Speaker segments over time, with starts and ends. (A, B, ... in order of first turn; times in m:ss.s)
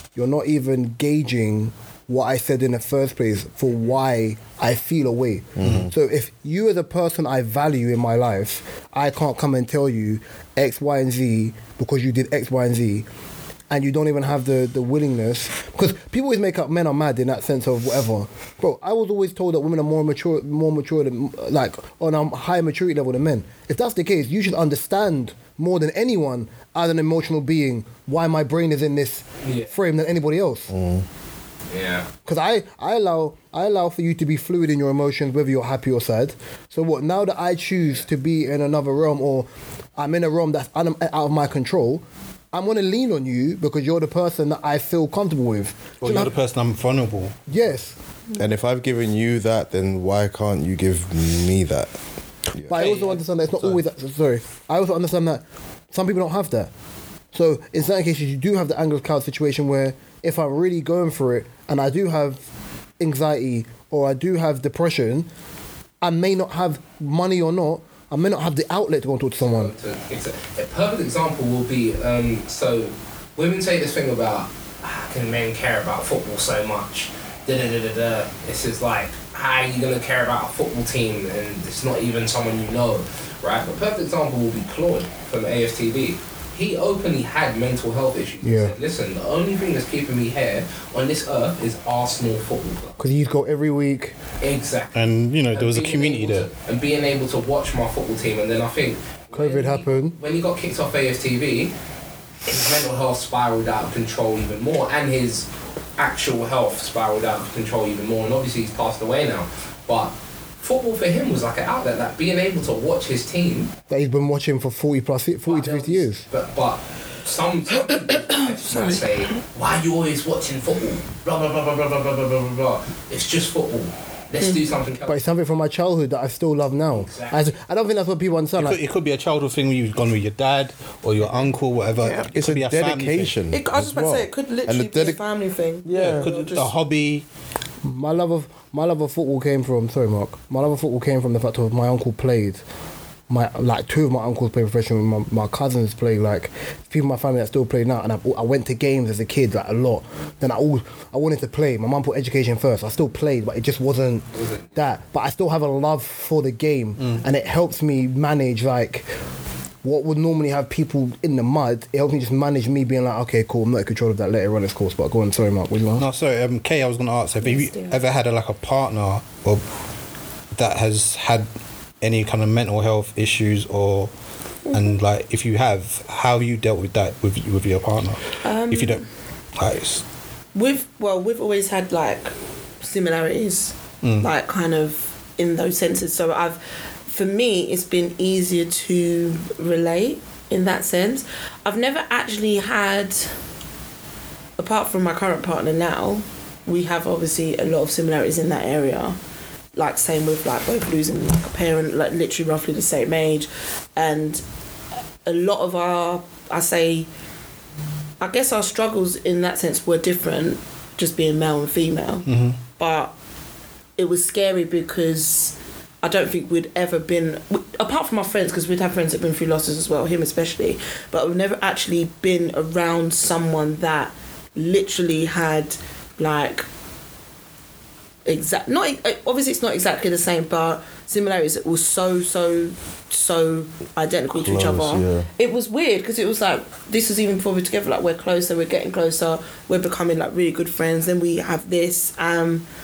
0:00.2-0:13.1 A
0:05.6-0:05.9 B
0:13.7-0:30.7 A
0:29.4-0:29.7 C
0:30.7-0:31.0 B
0:31.7-0:32.0 C
0:32.2-0:46.3 A
0:46.0-0:47.4 D
0:47.5-0:48.0 A
0:48.4-0:52.0 B
0:52.7-0:56.7 A
0:52.7-0:53.8 D
0:57.3-1:02.4 A
1:03.0-1:05.3 A
1:06.0-1:09.7 A
1:09.4-1:33.0 C
1:28.4-1:28.7 A
1:33.0-1:34.2 A
1:34.4-1:35.0 C
1:34.9-1:36.5 D
1:35.5-1:41.7 C
1:39.3-1:40.2 A
1:42.4-1:53.7 C
1:53.9-1:56.2 A
1:55.4-2:05.2 C
2:05.1-2:08.8 A
2:06.9-2:07.5 C
2:08.6-2:13.4 D
2:12.0-2:12.3 E
2:12.2-2:15.2 B
2:13.5-2:16.7 E
2:15.8-2:16.3 B
2:15.9-2:17.2 D
2:17.8-2:22.6 A
2:23.3-2:39.1 A
2:34.4-2:34.6 C
2:39.8-2:46.0 A
2:46.0-2:49.6 D
2:47.4-2:48.0 E
2:50.5-2:51.5 D
2:52.0-2:54.1 D
2:54.7-2:59.0 D
2:58.4-2:59.0 E
2:59.6-3:00.0 D
3:00.5-3:13.3 E
3:04.0-3:04.3 D
3:14.6-3:19.2 E
3:19.7-3:24.4 E
3:25.2-3:27.1 E
3:28.2-3:33.1 E
3:32.3-3:32.6 D
3:34.0-3:46.7 E
3:48.2-4:02.6 E
3:54.4-3:55.3 B